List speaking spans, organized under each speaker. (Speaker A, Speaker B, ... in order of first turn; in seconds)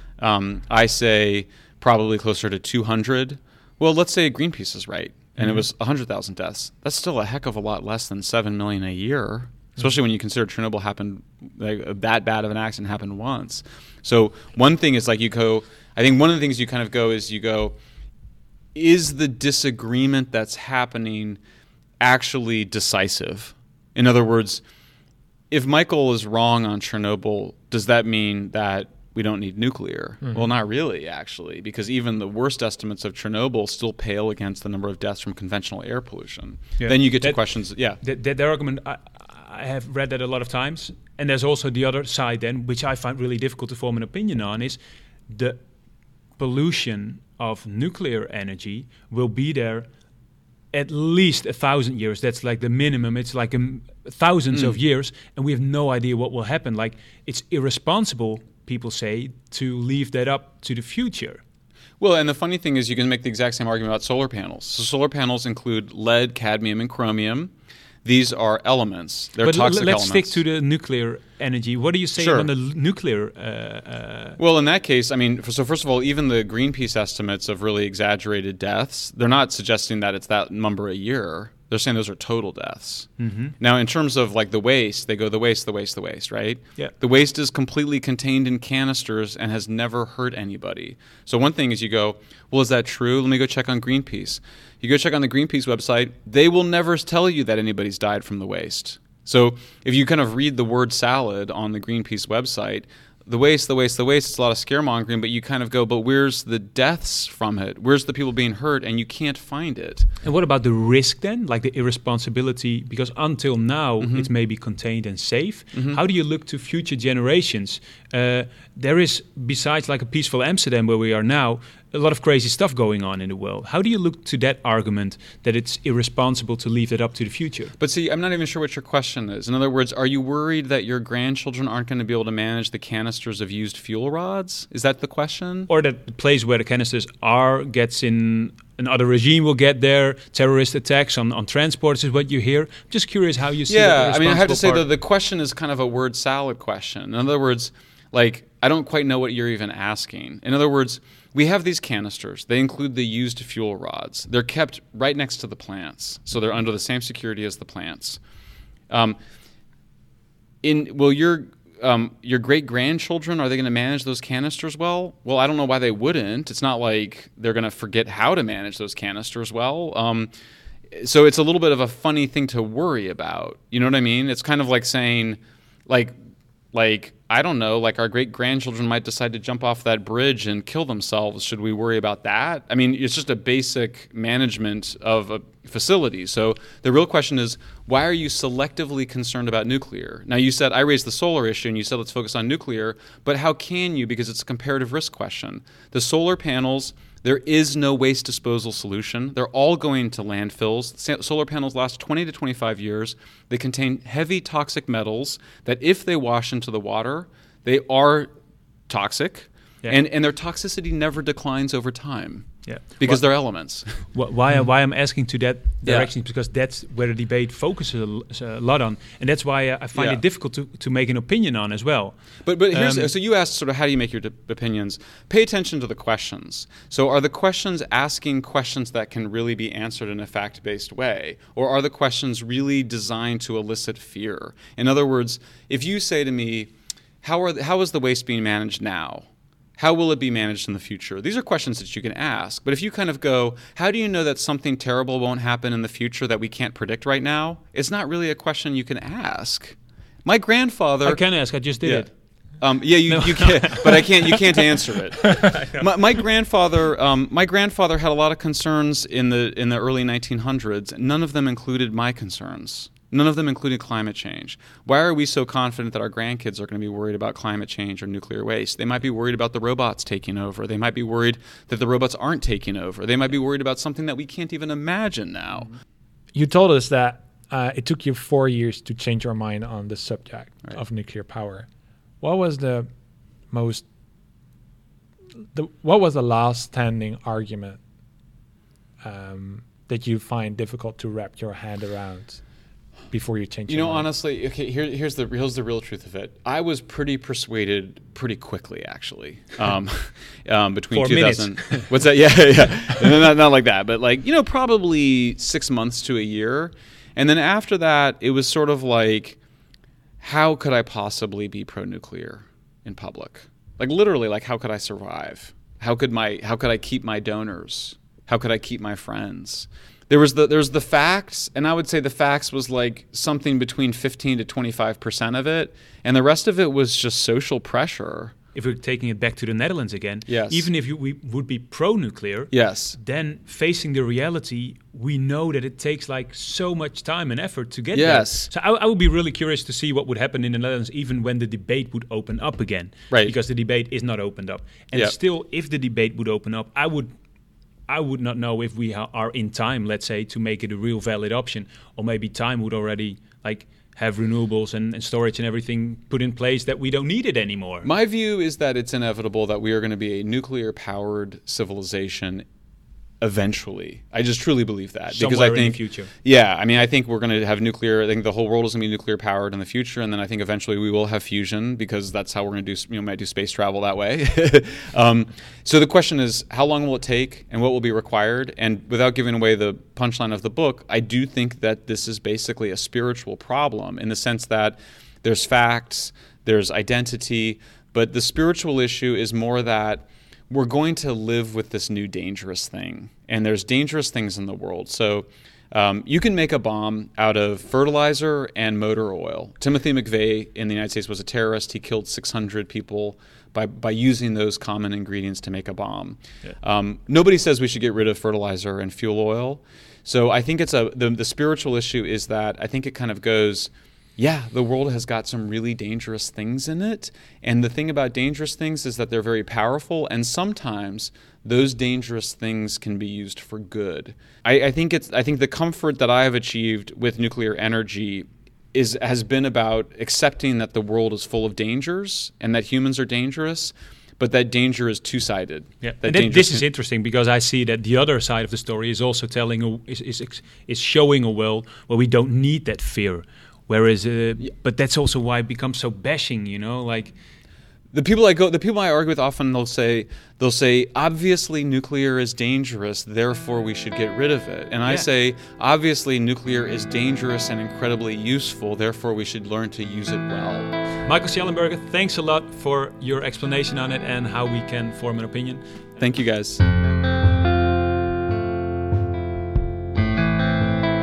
Speaker A: 0.2-17.7, 18.7-21.4, 22.0-24.6, 25.5-38.0, 54.5-54.8, 62.0-67.5, 68.0-70.4, 72.2-72.5, 74.4-110.1, 114.0-114.3, 115.7-116.0, 127.8-135.7, 143.7-158.2, 158.9-159.2, 160.6-170.3, 170.9-176.1, 176.7-208.3, 208.9-214.1, 215.8-216.1, 219.9-220.2, 222.4-251.2, 251.8-252.1, 252.6-275.7, 293.7-309.4, 310.2-328.3, 330.3-330.7, 332.5-333.0, 337.9-338.5, 357.8-362.4, 363.2-436.6, 447.9-460.7, 466.0-466.6
Speaker B: 36.8-37.4, 38.0-45.6, 46.4-49.9, 50.7-61.4, 69.4-74.4, 83.2-83.5, 110.2-127.7, 135.7-144.8, 212.6-222.2, 222.7-223.1, 251.0-252.1, 253.1-255.9, 300.9-301.9, 328.5-347.1, 347.9-357.9, 365.1-366.1, 435.8-447.1, 461.0-465.6
Speaker C: 276.3-281.7, 282.2-282.9, 283.5-283.9, 285.5-287.8, 289.0-292.4, 293.1-294.1